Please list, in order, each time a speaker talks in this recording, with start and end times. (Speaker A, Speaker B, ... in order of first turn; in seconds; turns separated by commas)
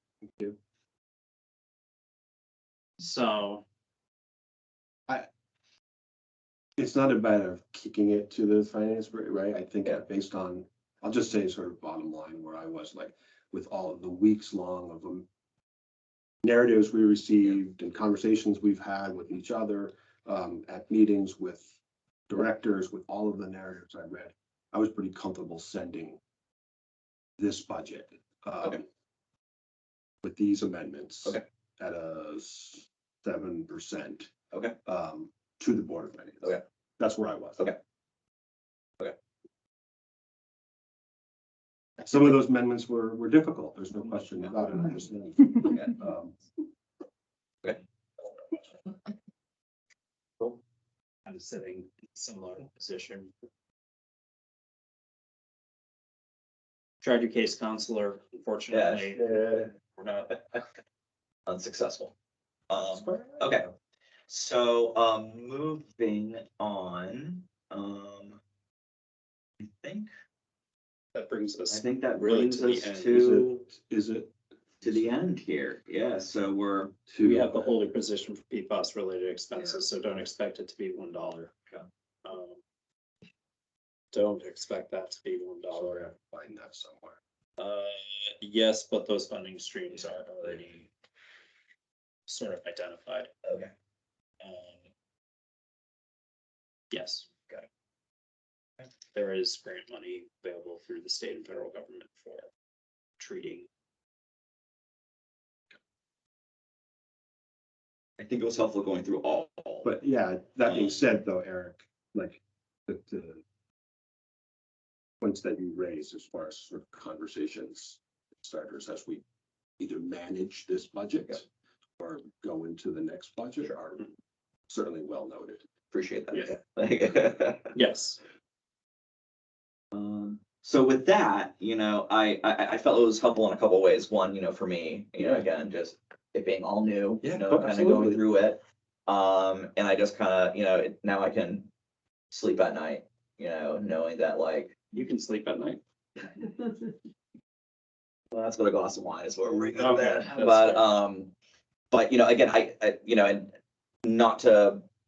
Speaker A: 3.0-3.6, Speaker B: 6.8-15.3, Speaker B: 16.4-21.8, Speaker B: 22.3-26.2, Speaker B: 27.4-28.9, Speaker B: 30.2-34.3, Speaker B: 34.9-37.7, Speaker B: 42.0-46.4, Speaker A: 51.3-53.3, Speaker A: 57.0-59.2, Speaker C: 58.7-59.2, Speaker B: 59.2-59.7, Speaker A: 60.0-60.4, Speaker C: 60.3-60.6, Speaker C: 61.5-62.1, Speaker C: 62.7-63.7, Speaker B: 62.8-63.6, Speaker C: 64.3-68.4, Speaker C: 69.6-70.1, Speaker A: 71.1-73.2, Speaker C: 71.7-73.6, Speaker B: 73.1-75.1, Speaker C: 74.8-77.0, Speaker B: 77.1-77.7, Speaker A: 77.2-81.5, Speaker B: 79.6-79.9, Speaker A: 82.2-82.6, Speaker A: 84.1-86.1, Speaker B: 85.7-87.2, Speaker A: 87.6-90.9, Speaker C: 89.9-90.6, Speaker A: 92.3-93.3, Speaker C: 93.4-93.7, Speaker A: 94.4-94.8, Speaker A: 96.9-97.3, Speaker A: 99.1-102.5, Speaker A: 103.2-103.7, Speaker C: 108.2-109.9, Speaker B: 109.8-113.4, Speaker C: 110.7-111.0, Speaker B: 115.2-119.2, Speaker B: 119.8-121.5, Speaker B: 122.0-124.1, Speaker B: 124.7-125.7, Speaker C: 125.9-127.7, Speaker A: 127.8-128.2, Speaker C: 129.9-141.7, Speaker B: 135.2-135.5, Speaker B: 137.2-138.2, Speaker C: 142.3-144.7, Speaker A: 144.9-146.8, Speaker C: 148.3-151.3, Speaker A: 149.7-150.9, Speaker C: 151.9-153.5, Speaker C: 154.1-154.8